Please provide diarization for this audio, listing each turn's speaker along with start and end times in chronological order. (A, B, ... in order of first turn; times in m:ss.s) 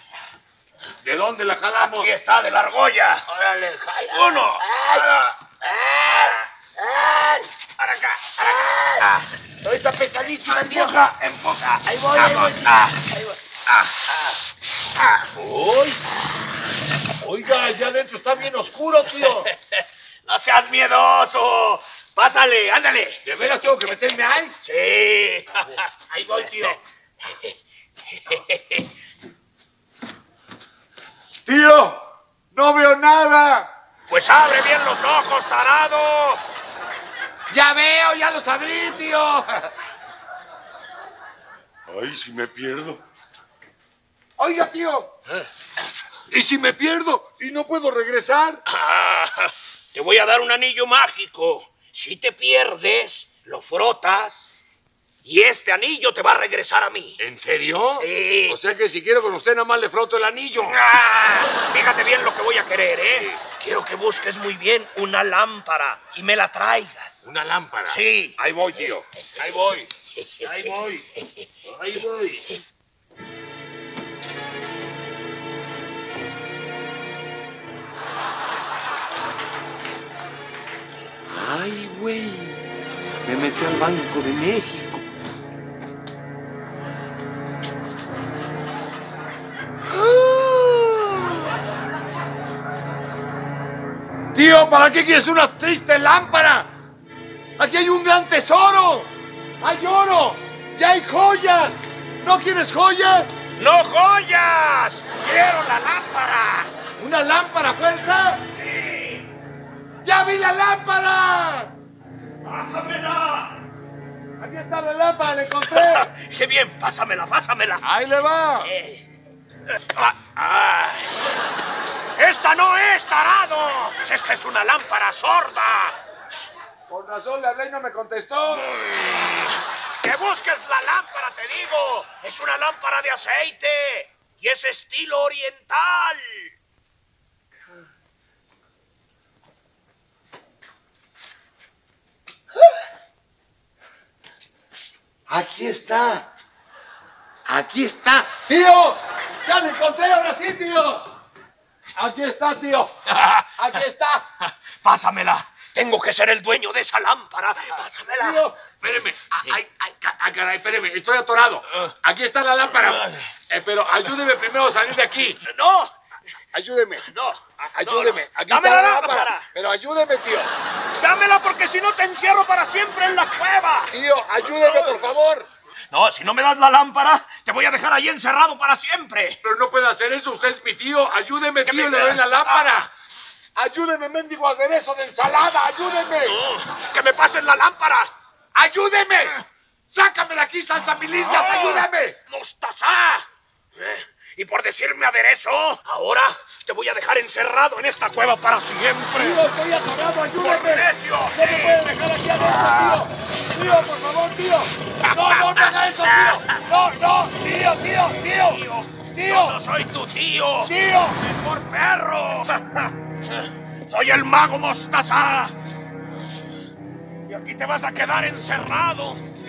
0:01.0-0:02.1 A
0:01.8-0:03.3 B
0:03.3-0:05.1 A
0:04.1-0:09.2 B
0:09.6-0:11.1 A
0:10.5-0:13.1 B
0:12.0-0:12.7 A
0:15.4-0:16.0 A
0:17.2-0:19.5 A
0:19.2-0:23.2 B
0:23.2-0:24.5 A
0:24.6-0:25.9 B
0:26.1-0:26.8 A
0:26.4-0:26.8 B
0:28.3-0:28.8 B
0:31.5-0:33.7 A
0:34.1-0:36.4 B
0:37.5-0:39.7 A
0:41.9-0:43.0 A
0:44.4-0:45.1 A
0:46.3-0:48.6 A
0:48.7-0:54.5 B
0:55.2-0:57.2 B
0:57.2-1:00.8 A
0:58.0-0:58.6 B
1:00.7-1:07.2 B
1:03.1-1:03.4 A
1:07.2-1:08.0 A
1:07.9-1:09.9 B
1:08.6-1:09.7 A
1:10.4-1:11.1 A
1:11.7-1:12.5 A
1:21.3-1:22.6 A
1:23.2-1:25.0 A
1:29.9-1:31.4 A
1:34.3-1:36.7 A
1:37.6-1:43.4 A
1:43.6-1:46.7 B
1:47.0-1:48.4 A
1:48.6-1:49.2 B
1:50.0-1:51.7 A
1:52.4-1:53.6 B
1:54.4-1:56.1 A
1:55.7-1:57.8 B
1:57.8-1:58.7 A
1:58.6-1:59.0 B
2:00.0-2:01.2 B
2:02.2-2:06.0 B
2:06.9-2:08.7 A
2:08.6-2:09.4 B
2:10.0-2:16.5 B
2:25.3-2:26.3 A
2:27.5-2:31.1 A
2:32.0-2:33.0 A
2:33.1-2:33.5 B
2:33.6-2:34.3 A
2:34.8-2:38.4 B
2:38.2-2:45.4 A
2:42.8-2:43.2 B
2:45.4-2:45.9 B
2:46.5-2:47.0 A
2:47.1-2:49.5 B
2:47.6-2:50.5 A
2:51.0-2:53.9 B
2:53.9-2:55.5 A
2:54.5-2:55.0 B
2:55.9-2:59.4 B
2:59.4-3:02.9 A
3:01.6-3:02.9 B
3:03.6-3:06.4 A
3:06.3-3:08.1 B
3:08.6-3:09.4 A
3:09.9-3:12.2 A
3:11.2-3:19.4 B
3:19.2-3:28.6 A
3:20.4-3:21.9 B
3:22.6-3:23.0 B
3:25.0-3:26.6 B
3:28.2-3:35.5 B
3:29.1-3:29.6 A
3:30.6-3:31.2 A
3:37.3-3:39.2 B